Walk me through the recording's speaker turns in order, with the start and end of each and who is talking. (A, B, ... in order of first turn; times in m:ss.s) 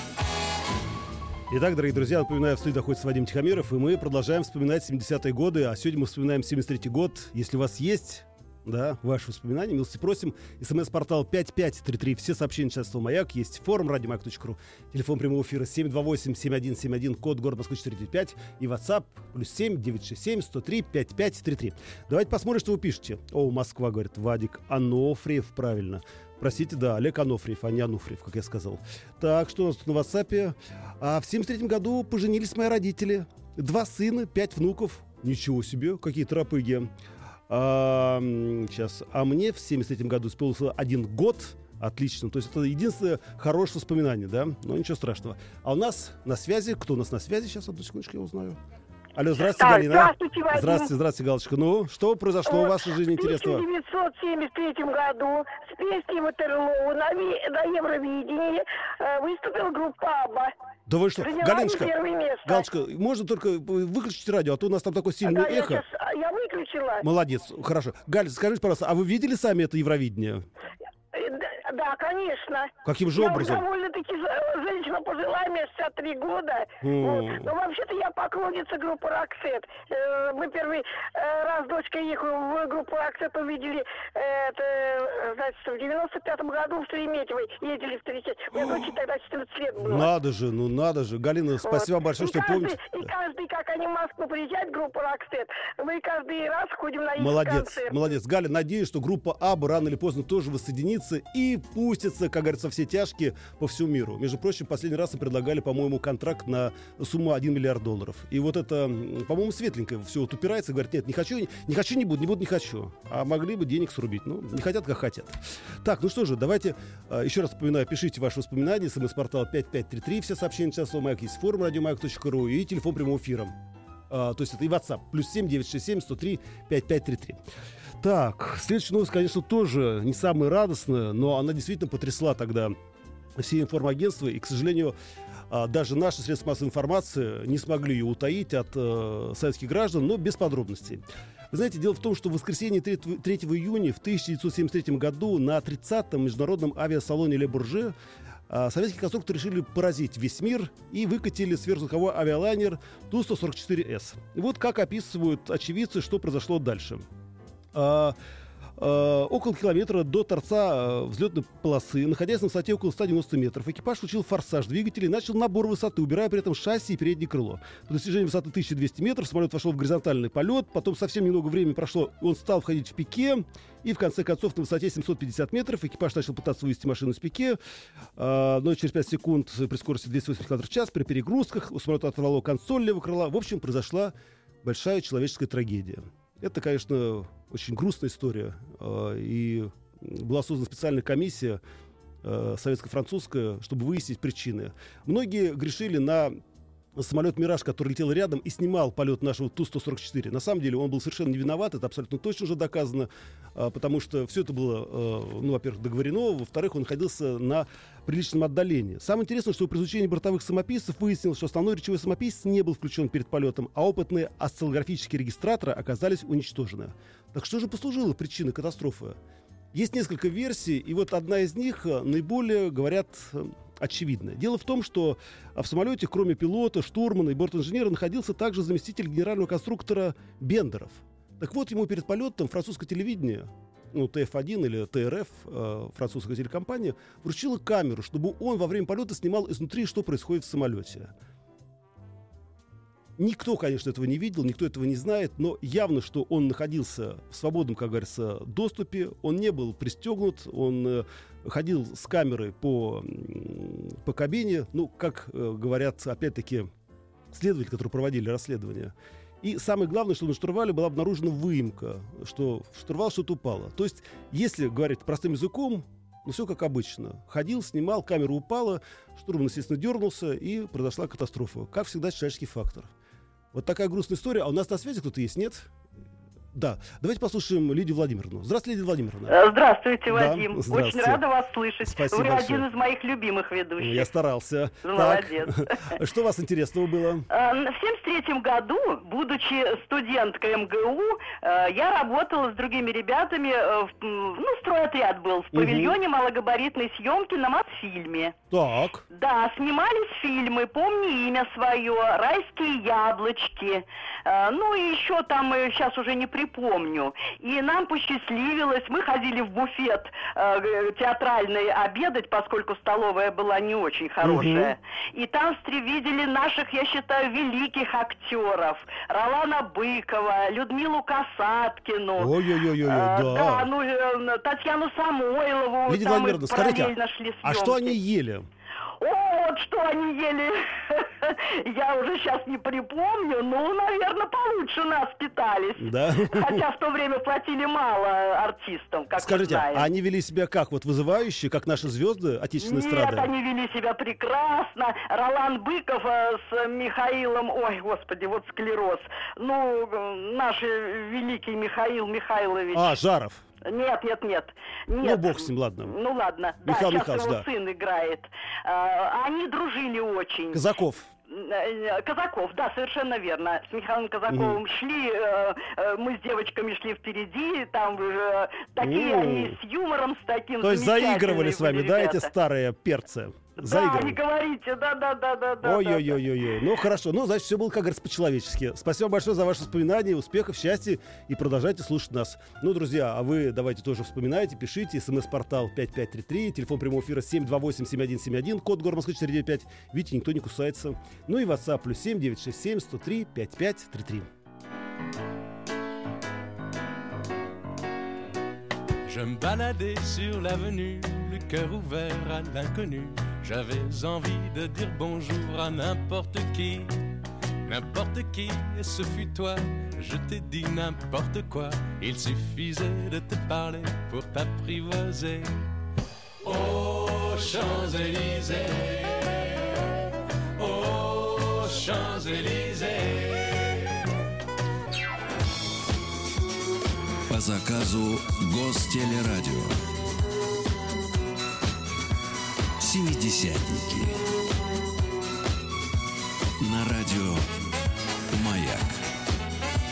0:01.5-0:36.9 A
0:37.5-0:48.6 A
0:49.2-0:53.6 A
0:49.6-0:50.9 B
0:52.5-1:00.5 B
1:00.9-1:01.9 A
1:01.2-1:02.7 B
1:02.4-1:05.8 A
1:05.2-1:07.1 B
1:07.0-1:10.5 A
1:11.1-1:30.1 B
1:12.8-1:13.7 A
1:16.8-1:17.5 A
1:29.8-1:33.1 A
1:31.6-1:38.0 B
1:37.2-2:03.6 A
2:04.1-2:07.4 A
2:08.0-2:12.8 A
2:13.4-2:15.0 A
2:15.5-2:28.0 A
2:28.5-2:37.0 A
2:37.7-2:38.2 A
2:38.8-2:57.6 A
2:58.2-3:11.6 A
3:12.2-3:16.4 A
3:17.0-3:39.2 A
3:39.7-4:01.1 A
4:03.2-4:16.7 A
4:17.3-4:32.9 A
4:33.5-4:35.7 A
4:36.5-4:39.4 A
4:39.3-4:44.1 C
4:40.1-4:41.2 A
4:41.8-4:42.7 A
4:43.8-4:47.3 A
4:44.8-4:46.0 C
4:47.3-4:58.4 C
4:55.5-4:56.0 A
4:58.5-4:59.0 A
4:59.1-5:22.3 C
5:14.2-5:14.8 A
5:22.2-5:23.7 A
5:22.8-5:28.0 C
5:25.9-5:28.5 A
5:29.0-5:39.9 C
5:35.8-5:36.6 A
5:39.2-5:43.3 A
5:42.6-5:53.0 C
5:52.7-5:53.4 A
5:53.6-6:00.6 C
5:55.0-5:56.0 A
5:56.6-5:57.5 A
6:00.5-6:01.1 A
6:01.3-6:12.3 C
6:04.3-6:04.6 A
6:08.8-6:09.6 A
6:10.6-6:14.2 A
6:13.6-6:16.2 C
6:15.6-6:34.3 A
6:39.0-6:47.1 D
6:47.6-6:55.7 D
6:56.4-6:59.8 D
7:00.6-7:04.0 D
7:07.3-7:09.8 E
7:12.8-7:14.2 E
7:16.6-7:17.5 E
7:18.3-7:19.0 E